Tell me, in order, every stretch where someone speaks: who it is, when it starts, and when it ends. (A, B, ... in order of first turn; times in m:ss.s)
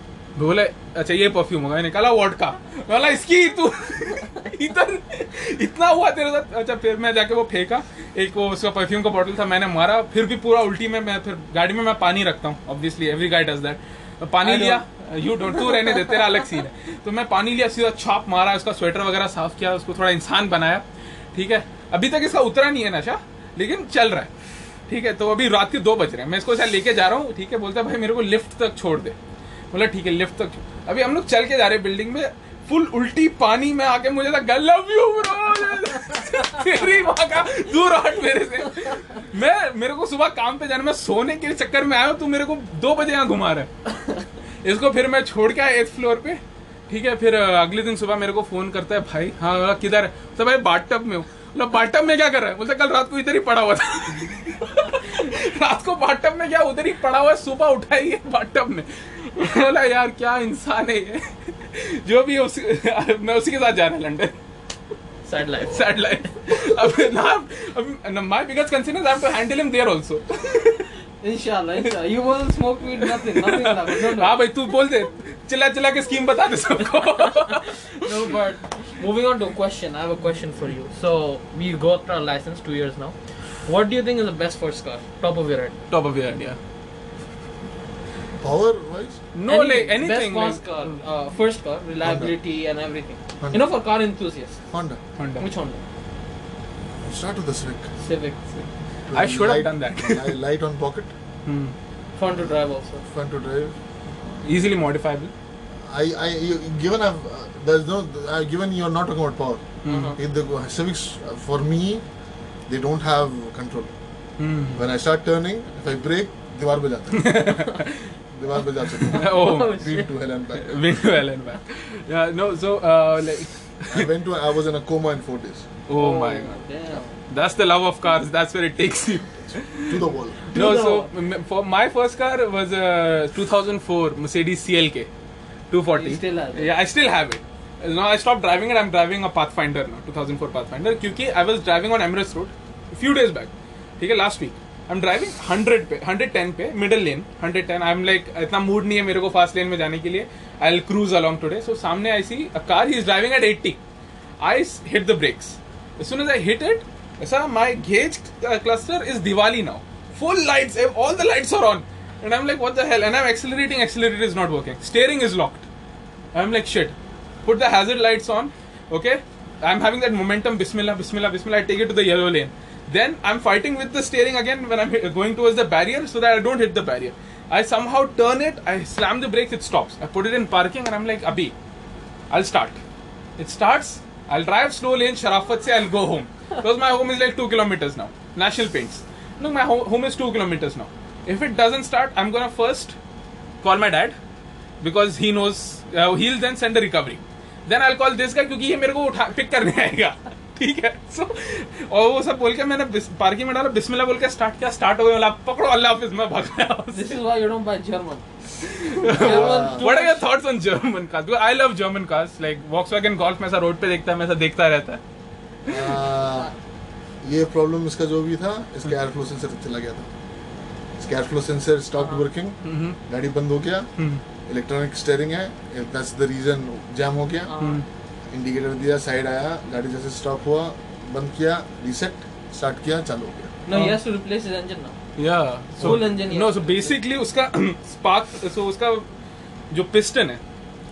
0:00.4-0:24.3 A
0:14.4-0:14.8 B
0:15.4-0:16.4 B
0:24.9-0:29.2 A
0:29.7-1:04.3 A
1:05.3-1:06.0 B
1:05.6-1:10.9 A
1:11.2-1:14.4 B
1:13.0-1:18.3 A
1:17.5-1:25.8 B
1:25.9-1:26.6 A
1:28.4-1:29.2 C
1:29.4-1:31.0 A
1:29.5-1:34.6 B
1:32.0-1:32.3 C
1:33.4-1:33.7 C
1:34.7-1:35.0 C
1:35.2-1:35.4 A
1:35.4-1:35.8 B
1:37.0-1:37.9 C
1:38.0-1:38.7 B
1:39.1-1:41.1 C
1:39.1-1:40.4 A
1:41.5-1:41.8 A
1:42.2-1:43.0 B
1:43.0-1:44.6 C
1:44.4-1:45.3 A
1:45.8-1:49.7 C
1:49.8-1:50.2 A
1:49.9-1:50.2 B
1:50.2-1:52.0 C
1:52.7-1:54.0 C
1:54.4-1:54.8 A
1:54.7-1:57.6 C
1:57.1-1:58.1 A
1:58.3-2:00.8 C
1:58.9-1:59.8 A
1:59.1-2:00.1 B
2:00.6-2:04.1 A
2:03.9-2:05.7 C
2:05.9-2:06.6 A
2:05.9-2:07.1 B
2:07.3-2:15.1 A
2:09.8-2:10.4 C
2:10.5-2:11.1 B
2:15.7-2:33.8 A
2:15.9-2:16.7 B
2:34.4-2:45.7 A
2:46.3-3:01.5 A
3:02.3-3:02.8 A
3:03.4-3:13.0 A
3:13.6-3:14.2 A
3:14.8-3:27.2 A
3:26.9-3:28.3 B
3:28.6-3:35.0 A
3:28.8-3:30.2 B
3:29.0-3:29.9 C
3:35.7-3:36.5 C
3:37.2-3:40.1 C
3:41.0-3:43.9 C
3:42.0-3:42.2 B
3:42.6-3:43.0 A
3:44.0-3:44.2 A
3:44.5-3:47.5 C
3:47.5-3:47.8 B
3:47.6-3:47.8 A
3:48.3-3:53.5 C
3:53.7-3:55.0 B
3:53.7-3:54.0 A
3:55.2-3:59.0 A
3:55.8-3:56.1 C
3:55.8-3:57.0 B
3:59.7-4:00.4 A